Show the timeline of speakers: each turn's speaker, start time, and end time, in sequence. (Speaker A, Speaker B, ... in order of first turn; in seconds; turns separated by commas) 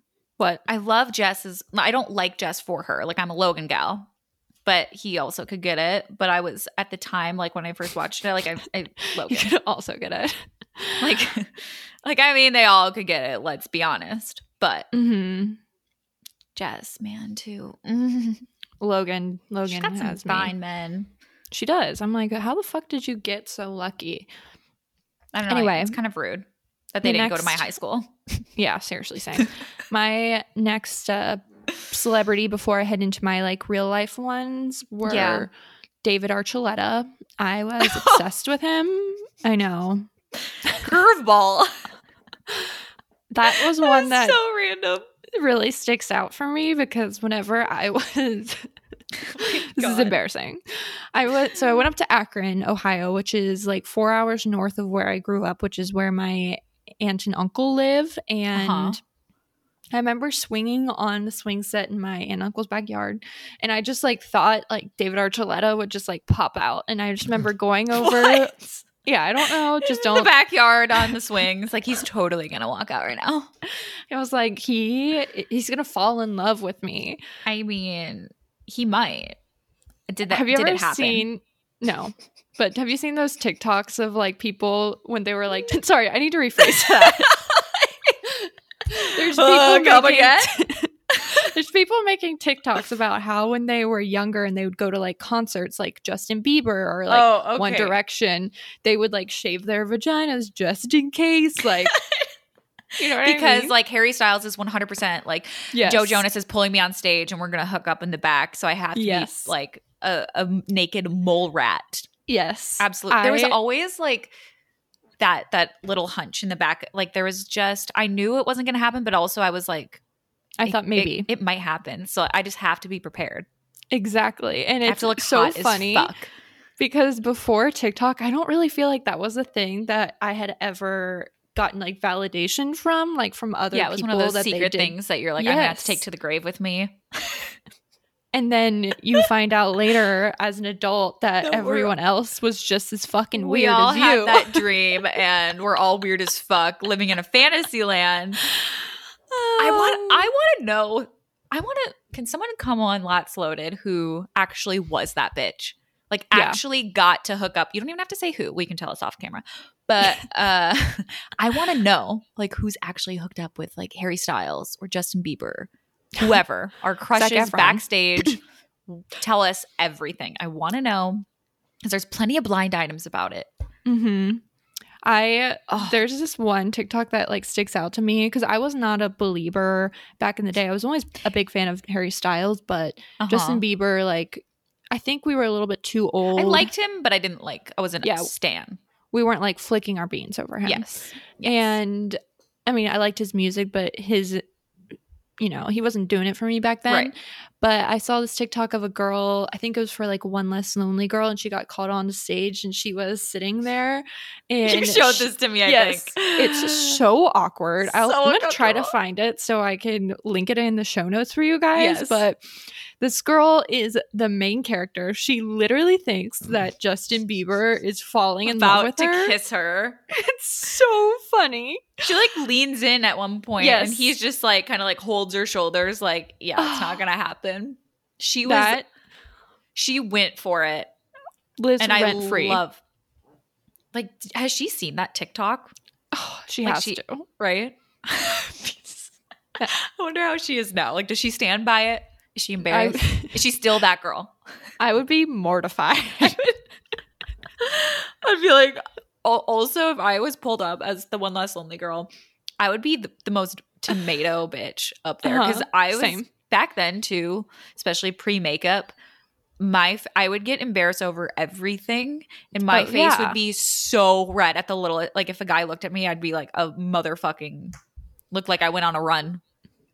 Speaker A: 0.7-4.1, Speaker A: 4.6-9.5, Speaker B: 9.0-11.2, Speaker A: 11.0-14.9, Speaker B: 14.9-15.6, Speaker A: 16.6-18.4, Speaker B: 18.8-20.5, Speaker A: 19.6-21.1, Speaker B: 21.5-24.3, Speaker A: 25.3-28.4, Speaker B: 25.5-26.0, Speaker B: 27.0-27.7, Speaker B: 28.6-35.5, Speaker A: 35.0-35.5, Speaker B: 36.0-40.1, Speaker A: 37.8-38.2, Speaker A: 40.6-41.7, Speaker B: 43.3-44.4, Speaker A: 43.5-45.1, Speaker B: 45.3-48.7, Speaker A: 49.2-50.2, Speaker B: 49.3-50.6, Speaker B: 51.1-59.0, Speaker A: 58.5-59.0, Speaker B: 59.9-70.3, Speaker A: 67.9-68.5, Speaker A: 69.4-73.5, Speaker B: 74.1-77.2, Speaker A: 77.4-79.4, Speaker A: 80.1-81.2, Speaker B: 80.3-87.4, Speaker A: 86.6-88.2, Speaker A: 88.9-90.5, Speaker B: 89.0-102.0, Speaker A: 97.1-98.0, Speaker A: 101.7-102.3, Speaker B: 103.0-103.7, Speaker A: 103.0-112.1, Speaker B: 105.7-106.2, Speaker B: 108.9-109.5, Speaker B: 112.3-113.6, Speaker A: 112.8-114.3, Speaker A: 115.2-120.0, Speaker B: 120.6-121.3, Speaker A: 120.6-123.5, Speaker B: 123.9-126.2, Speaker A: 124.8-126.3, Speaker B: 126.8-136.0, Speaker A: 133.7-137.5, Speaker B: 138.3-144.7, Speaker A: 141.4-141.9, Speaker A: 143.3-148.4, Speaker B: 149.3-150.3, Speaker A: 149.6-171.2, Speaker B: 156.3-156.6, Speaker B: 167.2-168.4, Speaker A: 171.8-173.5, Speaker B: 173.8-174.4, Speaker B: 175.0-186.7, Speaker A: 175.7-176.0, Speaker A: 183.2-183.6, Speaker A: 186.3-188.8, Speaker B: 188.0-188.3, Speaker B: 189.1-194.4, Speaker A: 190.6-191.8, Speaker B: 195.4-212.4, Speaker A: 204.6-207.0, Speaker A: 207.8-208.9, Speaker A: 211.7-212.2, Speaker B: 213.0-219.4, Speaker A: 218.4-220.0, Speaker B: 220.1-222.1, Speaker A: 222.0-228.8, Speaker B: 223.6-224.1, Speaker B: 226.6-227.0, Speaker B: 228.4-228.9, Speaker A: 229.7-230.9, Speaker B: 231.6-232.6, Speaker A: 231.8-232.8, Speaker A: 233.9-235.7, Speaker B: 236.1-237.2, Speaker A: 236.6-239.1, Speaker A: 239.6-244.3, Speaker B: 242.7-243.4, Speaker B: 244.8-246.6, Speaker A: 247.6-258.9, Speaker B: 255.2-256.3, Speaker A: 259.6-267.8, Speaker B: 262.6-263.4, Speaker A: 268.3-269.4